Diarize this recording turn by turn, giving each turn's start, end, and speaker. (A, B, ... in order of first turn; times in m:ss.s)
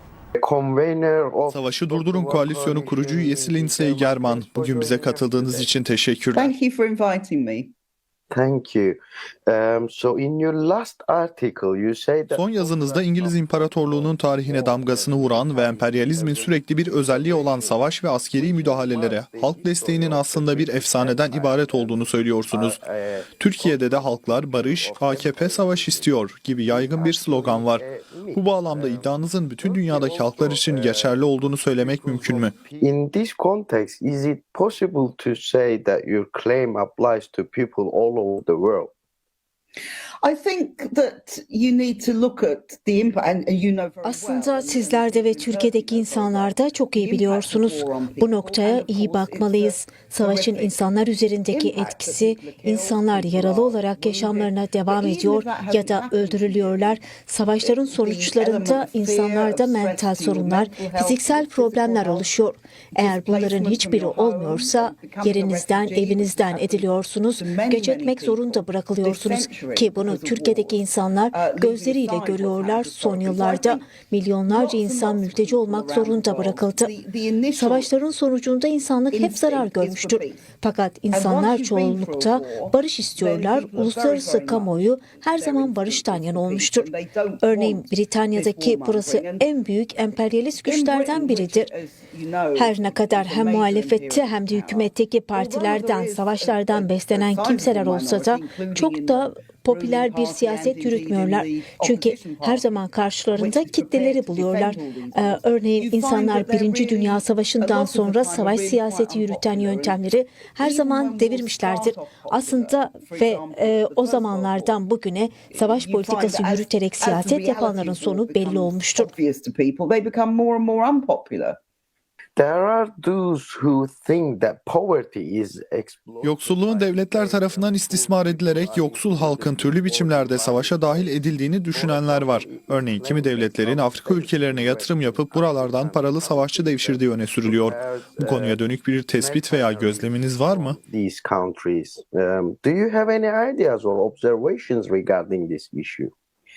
0:00.4-0:05.8 A
0:01.5-0:06.5 B
0:06.3-0:07.7 C
0:08.3-0:38.9 A
0:12.3-0:22.8 B
0:23.4-0:32.6 B
0:40.2-0:50.8 C
0:44.0-1:16.9 D
0:51.5-0:57.0 C
0:57.6-1:02.3 C
1:03.0-1:13.9 C
1:14.5-1:17.9 C
1:17.6-1:26.9 D
1:19.1-1:20.5 C
1:21.1-1:29.5 C
1:27.4-1:31.7 D
1:30.6-1:42.7 C
1:32.6-1:59.1 D
1:43.3-1:50.0 C
1:50.6-1:54.8 C
1:55.5-2:01.6 C
2:02.4-2:18.6 A
2:06.2-2:20.8 B
2:19.1-2:26.1 A